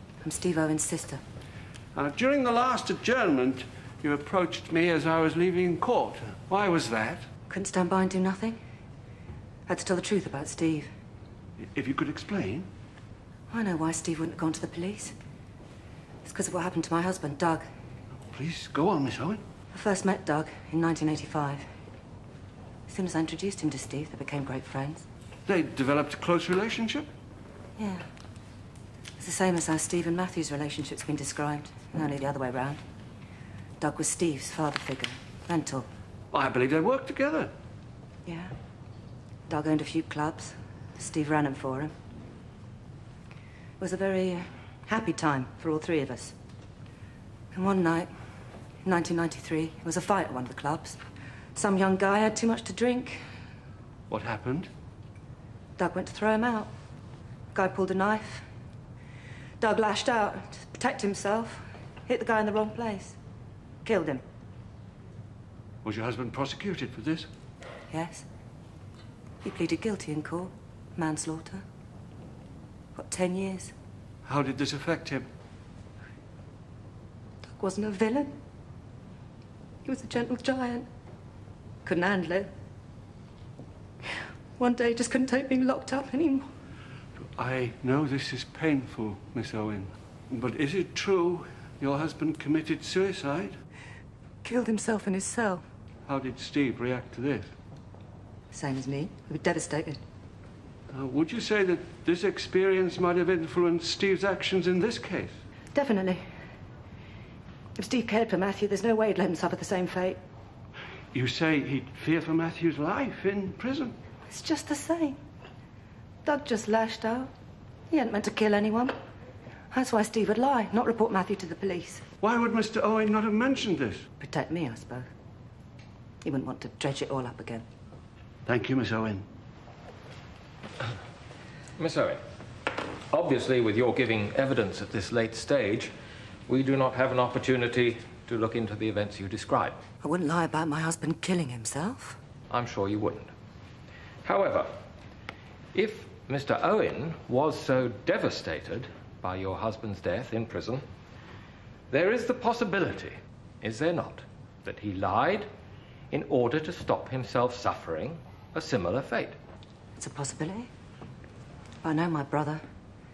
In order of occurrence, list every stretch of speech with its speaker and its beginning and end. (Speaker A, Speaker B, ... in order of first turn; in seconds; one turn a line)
Speaker A: 0.2-1.2
Speaker B: 1.9-7.2
Speaker A: 7.5-8.6
Speaker A: 9.7-10.9
Speaker B: 11.6-12.7
Speaker A: 13.5-15.1
Speaker A: 16.2-17.6
Speaker B: 18.3-19.4
Speaker A: 19.7-21.7
Speaker A: 22.9-25.1
Speaker B: 25.4-27.1
Speaker A: 27.8-28.1
Speaker A: 29.2-32.8
Speaker A: 33.8-35.9
Speaker B: 36.3-37.5
Speaker A: 38.2-38.5
Speaker A: 39.5-41.9
Speaker A: 43.8-46.3
Speaker A: 47.5-48.1
Speaker A: 48.8-51.0
Speaker A: 51.5-53.2
Speaker B: 54.1-54.7
Speaker A: 55.8-56.7
Speaker A: 57.5-58.5
Speaker A: 59.6-63.2
Speaker A: 63.8-64.2
Speaker B: 65.8-67.3
Speaker A: 67.9-68.3
Speaker A: 69.4-71.6
Speaker A: 72.9-73.7
Speaker B: 74.2-75.3
Speaker A: 77.5-78.3
Speaker A: 79.8-80.9
Speaker A: 81.8-82.5
Speaker A: 84.6-86.5
Speaker B: 87.4-93.6
Speaker A: 94.4-95.6
Speaker B: 96.1-97.5
Speaker A: 98.5-100.0
Speaker B: 100.9-105.3
Speaker A: 105.7-106.2
Speaker A: 107.8-110.2
Speaker B: 111.1-113.9
Speaker A: 114.3-115.2
Speaker A: 116.2-117.3
Speaker A: 117.9-118.9
Speaker A: 119.7-122.0
Speaker B: 122.2-124.0
Speaker A: 124.2-125.1
Speaker A: 126.2-127.7
Speaker B: 128.4-129.2
Speaker C: 131.8-132.2
Speaker C: 133.1-135.9
Speaker C: 136.5-139.8
Speaker A: 140.0-142.2
Speaker C: 142.5-143.3
Speaker C: 144.2-144.7
Speaker C: 145.7-150.8
Speaker C: 151.9-155.5
Speaker C: 156.1-159.3
Speaker A: 160.0-160.7
Speaker A: 161.8-162.6